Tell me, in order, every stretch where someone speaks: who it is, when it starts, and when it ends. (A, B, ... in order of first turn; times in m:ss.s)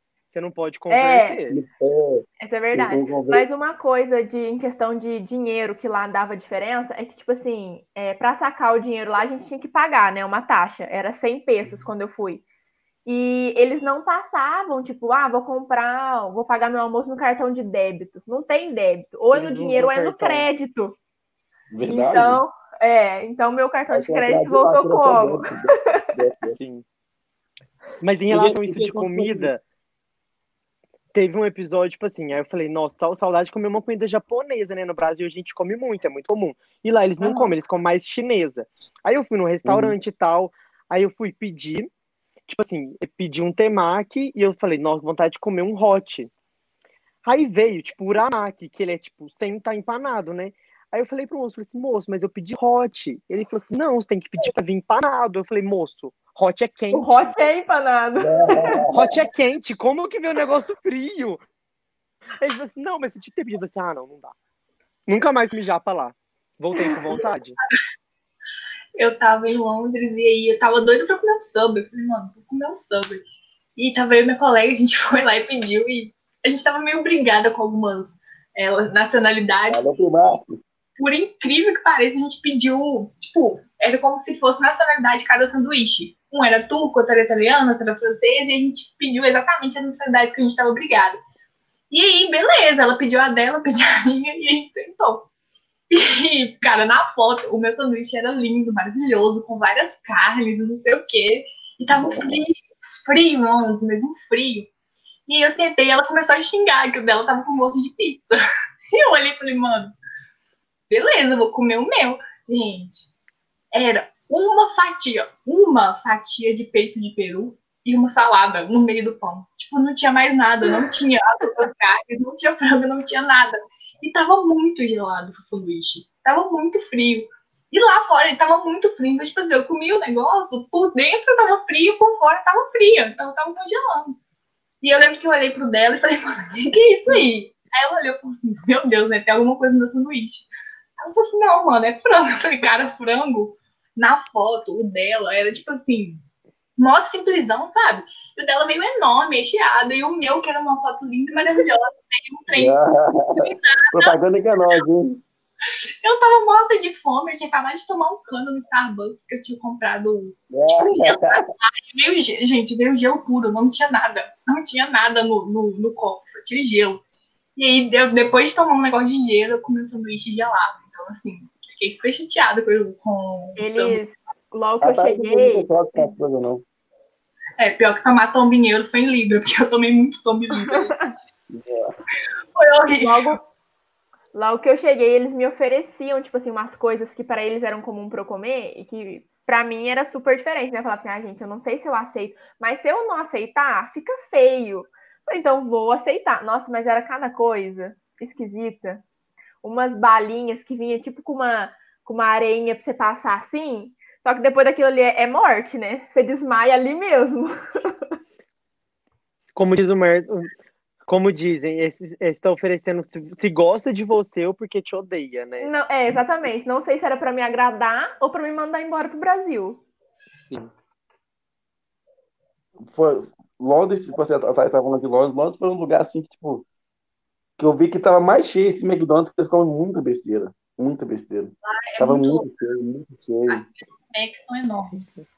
0:00.3-0:01.6 A
0:00.9-0:01.4 B
0:01.5-0:03.4 C
0:02.4-0:12.4 B
0:13.1-0:21.0 B
0:19.3-0:20.5 A
0:21.7-0:22.4 C
0:21.9-0:26.0 B
0:23.9-0:26.6 C
0:26.5-0:26.8 A
0:28.0-0:29.6 A
0:28.3-0:29.5 C
0:31.1-0:41.9 A
0:37.2-0:37.5 B
0:39.6-0:40.0 C
0:42.5-0:46.3 A
0:47.2-0:57.4 A
0:56.9-0:58.8 B
0:58.2-0:59.3 C
0:58.9-1:01.4 A
1:02.4-1:04.3 A
1:05.1-1:07.6 A
1:09.0-1:13.2 D
1:13.8-1:19.8 D
1:19.7-1:20.6 C
1:21.0-1:31.2 D
1:31.9-1:35.3 D
1:35.9-1:44.7 D
1:41.9-1:42.4 C
1:45.3-1:48.4 D
1:48.9-1:50.0 D
1:50.9-1:53.1 D
1:53.7-2:14.2 D
2:14.8-2:26.2 D
2:26.8-2:32.8 D
2:32.5-2:35.2 C
2:33.4-2:34.2 D
2:36.0-2:47.0 D
2:40.5-2:41.5 C
2:47.6-2:54.0 D
2:53.6-2:56.0 B
2:54.8-2:56.6 C
2:57.6-3:01.1 D
3:00.7-3:01.1 B
3:01.5-3:02.1 C
3:02.6-3:03.4 D
3:03.0-3:03.4 B
3:04.3-3:19.0 B
3:19.6-3:28.1 B
3:29.6-3:30.5 A
3:31.1-3:35.7 A
3:35.6-3:39.8 B
3:42.9-3:46.6 C
3:47.6-3:53.7 C
3:51.6-3:52.5 D
3:53.5-3:55.1 D